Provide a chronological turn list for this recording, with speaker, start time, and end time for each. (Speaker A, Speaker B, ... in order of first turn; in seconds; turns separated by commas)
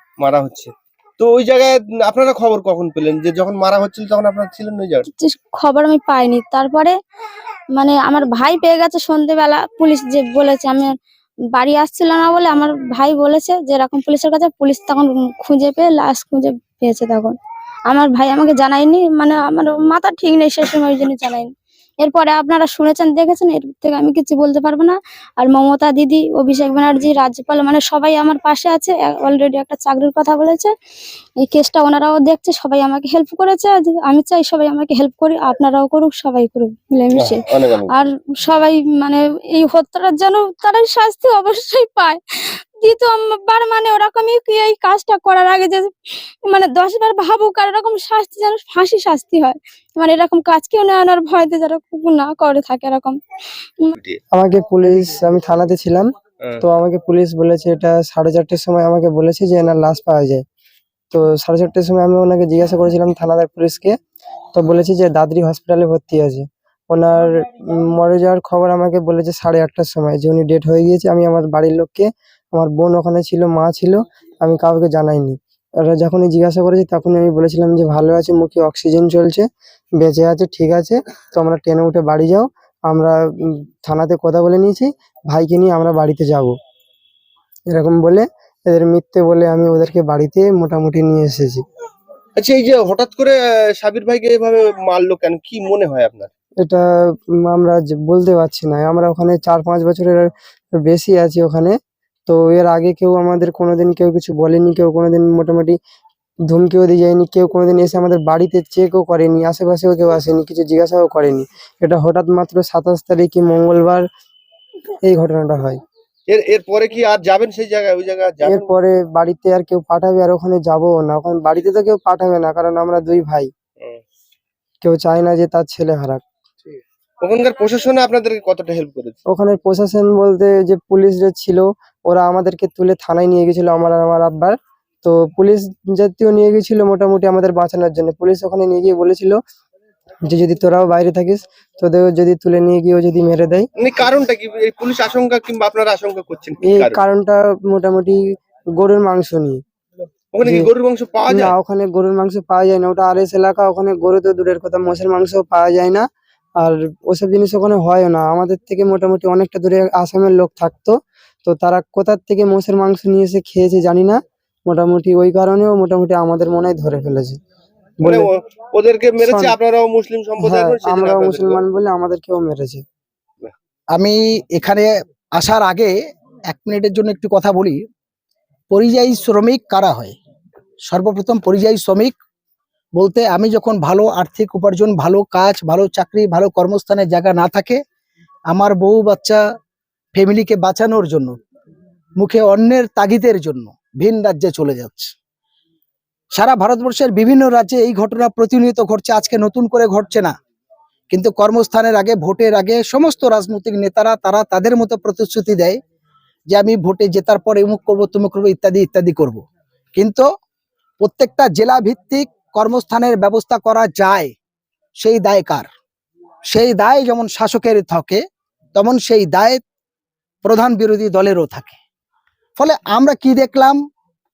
Speaker A: 0.2-5.0, Speaker B: 5.2-6.9, Speaker B: 7.8-10.9, Speaker B: 11.5-17.4, Speaker B: 17.9-21.5, Speaker B: 22.0-30.7, Speaker B: 31.4-45.9, Speaker A: 37.1-37.9, Speaker B: 46.4-53.2, Speaker C: 54.3-60.4, Speaker C: 61.1-64.0, Speaker C: 64.5-86.5, Speaker C: 87.7-91.6, Speaker A: 92.4-96.3, Speaker C: 96.6-101.8, Speaker C: 102.3-105.8, Speaker C: 106.5-114.1, Speaker C: 115.0-115.8, Speaker A: 116.3-118.7, Speaker C: 118.4-123.5, Speaker C: 124.8-126.2, Speaker A: 127.2-129.2, Speaker C: 129.3-139.4, Speaker C: 140.3-143.7, Speaker A: 143.8-147.0, Speaker C: 146.6-148.2, Speaker C: 148.8-149.6, Speaker A: 150.3-151.5, Speaker C: 150.4-150.7, Speaker C: 151.3-156.1, Speaker C: 156.6-167.4, Speaker C: 168.0-168.3, Speaker A: 168.0-171.6, Speaker C: 169.2-169.6, Speaker C: 170.4-172.8, Speaker D: 173.9-175.9, Speaker D: 176.5-177.8, Speaker D: 178.7-180.1, Speaker D: 180.9-182.2, Speaker D: 182.9-187.8, Speaker D: 188.5-189.4, Speaker D: 190.1-191.3, Speaker D: 192.2-195.1, Speaker D: 196.3-200.3, Speaker D: 201.1-205.8, Speaker D: 206.5-209.4, Speaker D: 209.9-210.2, Speaker D: 211.0-214.3, Speaker D: 215.0-215.7, Speaker D: 216.5-218.2, Speaker D: 218.8-219.6, Speaker D: 220.4-221.8, Speaker D: 222.6-223.8